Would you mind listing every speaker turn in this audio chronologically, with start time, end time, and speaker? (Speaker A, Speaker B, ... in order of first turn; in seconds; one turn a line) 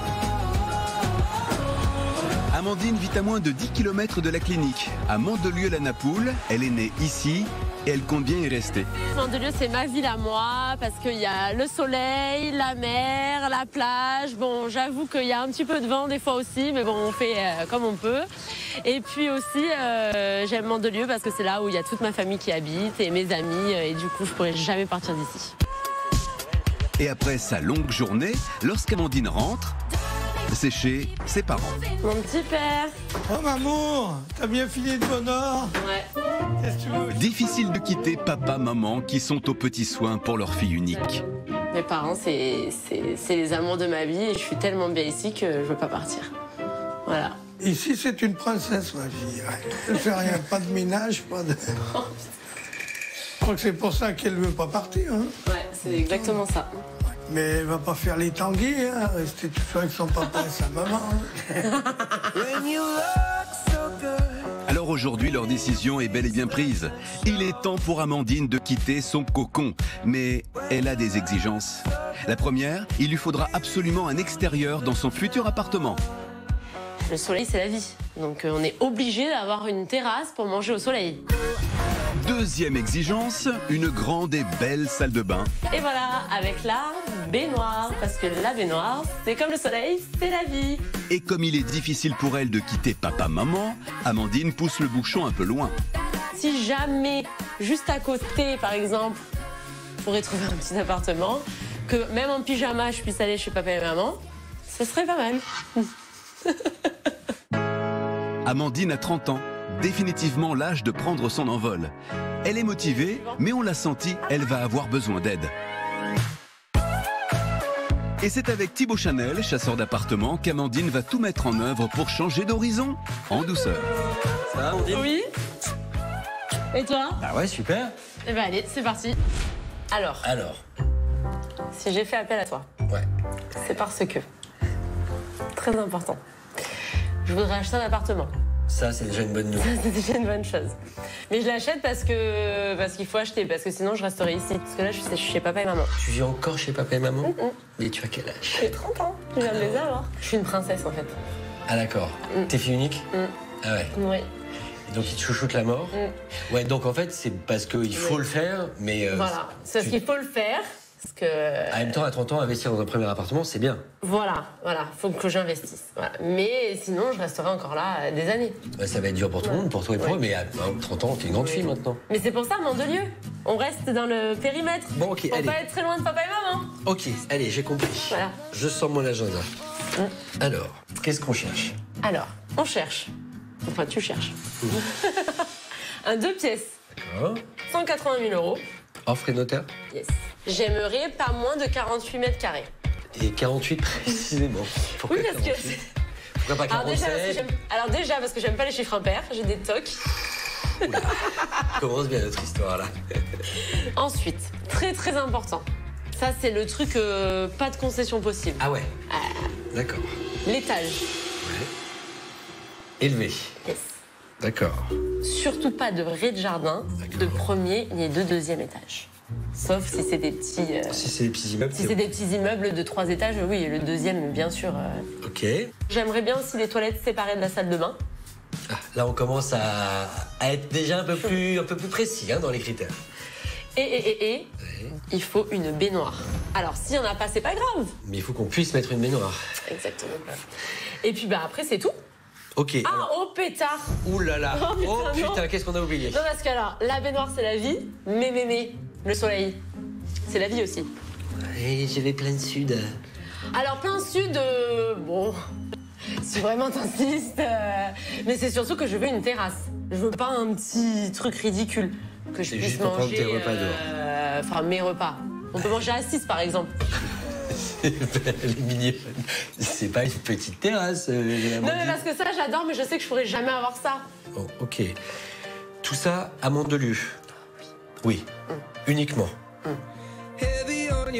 Speaker A: 2.5-8.9
Speaker B: 9.0-18.3
Speaker B: 18.8-25.5
Speaker A: 27.0-29.8
Speaker A: 30.5-31.8
Speaker B: 32.0-33.0
Speaker C: 33.3-35.7
Speaker B: 35.8-36.1
Speaker C: 36.6-37.3
Speaker A: 37.1-41.2
Speaker B: 41.7-46.3
Speaker B: 47.1-47.4
Speaker C: 47.6-51.8
Speaker C: 53.4-55.3
Speaker B: 55.5-56.8
Speaker C: 56.1-56.4
Speaker C: 57.3-61.6
Speaker B: 61.9-62.2
Speaker C: 62.3-63.2
Speaker A: 64.7-76.0
Speaker B: 77.1-81.2
Speaker A: 82.2-85.5
Speaker B: 85.7-90.8
Speaker A: 91.1-95.8
Speaker B: 96.4-99.2
Speaker B: 100.0-105.9
Speaker B: 106.5-106.9
Speaker A: 108.5-111.9
Speaker A: 112.4-115.5
Speaker B: 113.0-113.4
Speaker A: 118.2-123.9
Speaker D: 124.5-125.1
Speaker B: 124.9-125.3
Speaker B: 126.7-127.2
Speaker D: 127.2-128.0
Speaker B: 128.2-129.2
Speaker B: 129.9-130.3
Speaker D: 130.2-130.6
Speaker B: 131.7-132.7
Speaker B: 133.6-134.3
Speaker B: 135.6-136.2
Speaker B: 137.2-138.3
Speaker D: 138.7-139.8
Speaker B: 139.6-140.8
Speaker B: 141.3-145.9
Speaker D: 146.0-148.8
Speaker B: 147.2-147.6
Speaker B: 148.6-151.1
Speaker D: 149.3-149.9
Speaker D: 151.7-153.1
Speaker D: 153.6-153.9
Speaker B: 153.9-154.3
Speaker D: 154.9-156.0
Speaker D: 156.5-160.0
Speaker B: 157.9-158.2
Speaker B: 159.1-162.0
Speaker D: 161.7-163.8
Speaker B: 164.0-168.6
Speaker D: 168.8-172.0
Speaker B: 169.4-170.2
Speaker B: 171.3-176.8
Speaker D: 174.9-175.6
Speaker D: 176.8-179.5
Speaker B: 178.1-178.4
Speaker D: 180.4-181.8
Speaker B: 182.0-183.1
Speaker B: 183.7-185.5
Speaker B: 186.0-186.7
Speaker D: 187.0-187.4
Speaker B: 187.7-188.6
Speaker D: 189.1-189.7
Speaker B: 189.9-192.7
Speaker D: 193.1-195.8
Speaker B: 195.1-195.8
Speaker D: 196.4-197.5
Speaker B: 196.7-200.0
Speaker D: 200.8-202.9
Speaker B: 203.6-209.5
Speaker D: 208.6-208.9
Speaker D: 209.7-210.1
Speaker B: 210.5-211.1
Speaker D: 211.4-211.7
Speaker D: 213.0-213.5
Speaker B: 213.7-213.9
Speaker D: 214.4-214.9
Speaker B: 215.2-221.0
Speaker D: 217.0-217.5
Speaker D: 220.9-222.2
Speaker B: 221.7-225.1
Speaker D: 225.2-225.7
Speaker B: 225.9-228.0
Speaker D: 228.7-233.0
Speaker B: 231.1-231.4
Speaker B: 233.8-234.5
Speaker D: 234.6-234.9
Speaker B: 235.1-237.9
Speaker D: 238.0-239.4
Speaker B: 239.7-240.4
Speaker B: 241.0-241.9
Speaker D: 242.6-243.1
Speaker B: 242.8-244.0
Speaker D: 244.0-246.2
Speaker B: 244.5-245.5
Speaker B: 246.1-249.6
Speaker B: 250.3-250.9
Speaker D: 251.4-252.9
Speaker B: 253.5-255.4
Speaker B: 256.2-266.8
Speaker D: 262.5-263.8
Speaker D: 267.6-272.0
Speaker B: 271.6-274.1
Speaker D: 274.3-274.9
Speaker D: 275.8-277.2
Speaker D: 278.9-279.3